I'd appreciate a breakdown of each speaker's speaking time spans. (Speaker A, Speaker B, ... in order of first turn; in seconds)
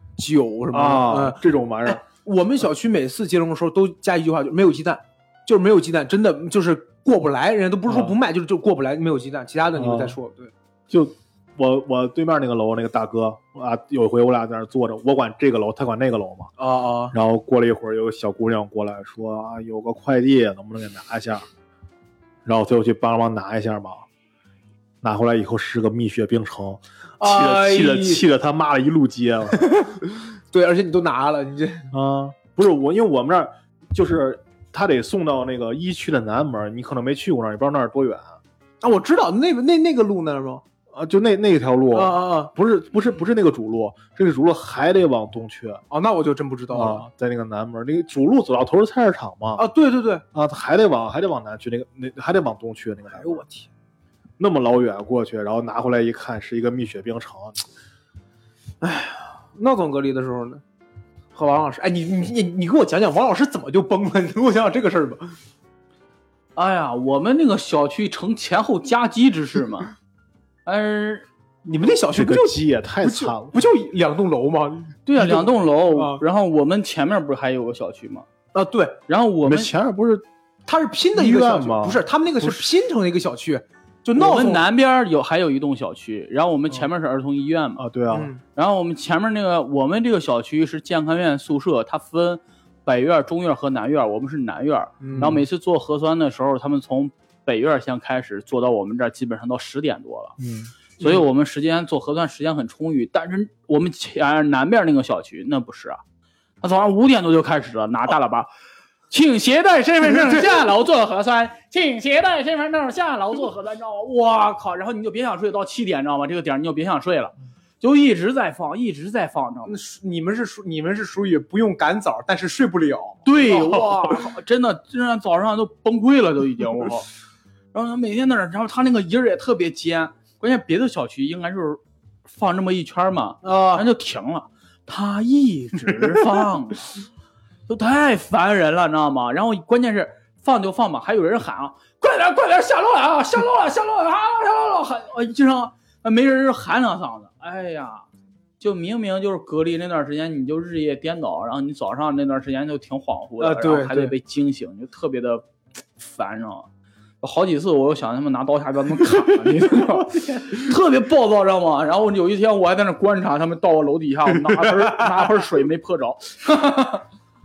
Speaker A: 0.2-10.5, 16.6-17.1, 27.2-28.3, 29.7-31.9, 38.8-40.6, 41.9-42.5, 45.9-47.0, 49.6-50.2, 53.1-53.7, 58.8-60.6, 61.3-65.4, 71.7-76.2, 78.5-79.0, 80.7-84.7, 88.1-88.4, 95.0-95.4, 119.7-124.0, 133.4-133.9, 153.4-154.1, 160.1-160.6, 164.4-165.3
Speaker B: 0.7-2.0, 7.9-8.2, 9.8-10.2, 10.9-16.5, 17.1-21.5, 22.4-24.1, 25.0-30.0, 31.9-38.4, 40.9-45.8, 46.7-49.7, 50.3-53.4, 54.4-57.6, 72.1-73.6, 79.4-80.3, 81.2-82.7, 87.8-88.3, 95.2-95.4, 100.4-100.7
Speaker C: 66.6-69.9, 70.7-71.2, 75.1-78.3, 79.1-79.7, 84.2-87.8, 88.5-100.4, 101.0-106.0, 106.6-108.5, 109.1-119.7, 123.2-127.1, 127.7-137.1, 137.7-148.1, 148.6-155.4, 156.0-156.7, 157.2-167.0